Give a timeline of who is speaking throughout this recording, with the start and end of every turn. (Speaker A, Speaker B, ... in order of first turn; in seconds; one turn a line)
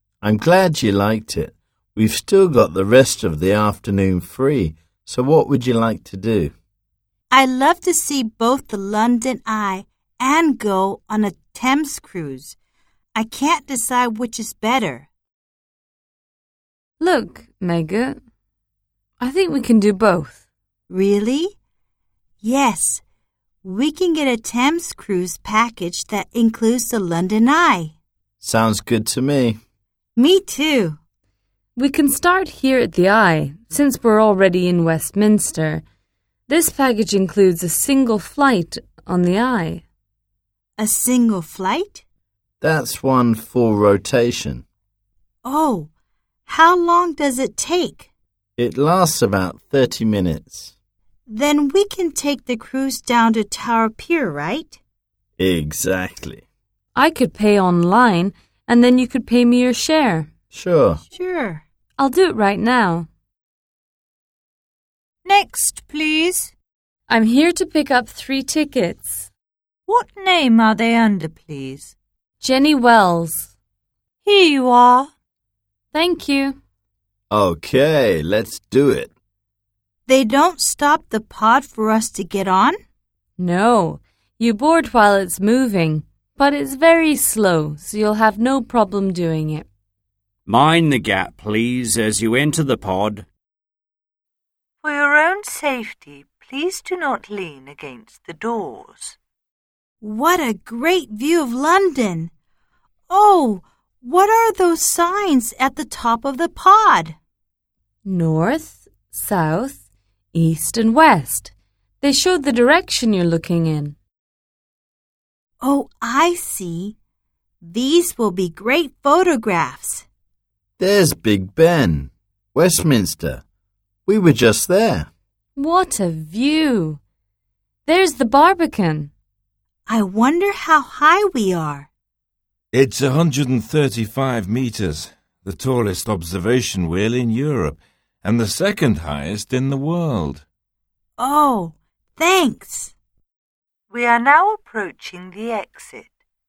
Speaker A: 0.2-6.5
Speaker B: 7.3-12.6
Speaker B: 13.2-15.1
Speaker C: 17.0-18.2
Speaker C: 19.2-20.4
Speaker B: 20.9-21.6
Speaker B: 22.4-23.0
Speaker B: 23.6-27.9
Speaker A: 28.4-29.6
Speaker B: 30.2-31.0
Speaker C: 31.8-35.8
Speaker C: 36.5-39.8
Speaker B: 40.8-42.0
Speaker A: 42.6-44.6
Speaker B: 45.4-45.9
Speaker B: 46.5-48.1
Speaker A: 48.6-50.7
Speaker B: 51.3-54.8
Speaker A: 55.4-56.4
Speaker C: 57.0-60.3
Speaker A: 60.5-61.0
Speaker B: 61.1-61.6
Speaker C: 62.0-63.1
Speaker D: 65.3-66.5
Speaker C: 67.1-69.3
Speaker D: 69.9-71.9
Speaker C: 72.4-73.5
Speaker D: 74.2-75.1
Speaker C: 75.9-76.6
Speaker A: 77.3-79.1
Speaker B: 80.1-82.8
Speaker C: 83.4-89.7
Speaker E: 90.5-93.3
Speaker D: 94.8-99.2
Speaker B: 100.0-102.3
Speaker B: 103.1-107.2
Speaker C: 108.0-109.8
Speaker C: 110.3-114.0
Speaker B: 115.6-117.0
Speaker B: 117.6-120.1
Speaker A: 120.8-123.4
Speaker A: 124.1-125.1
Speaker C: 125.6-127.0
Speaker C: 127.9-129.1
Speaker B: 129.9-131.9
Speaker F: 132.7-140.4
Speaker B: 141.2-142.9
Speaker D: 143.9-146.1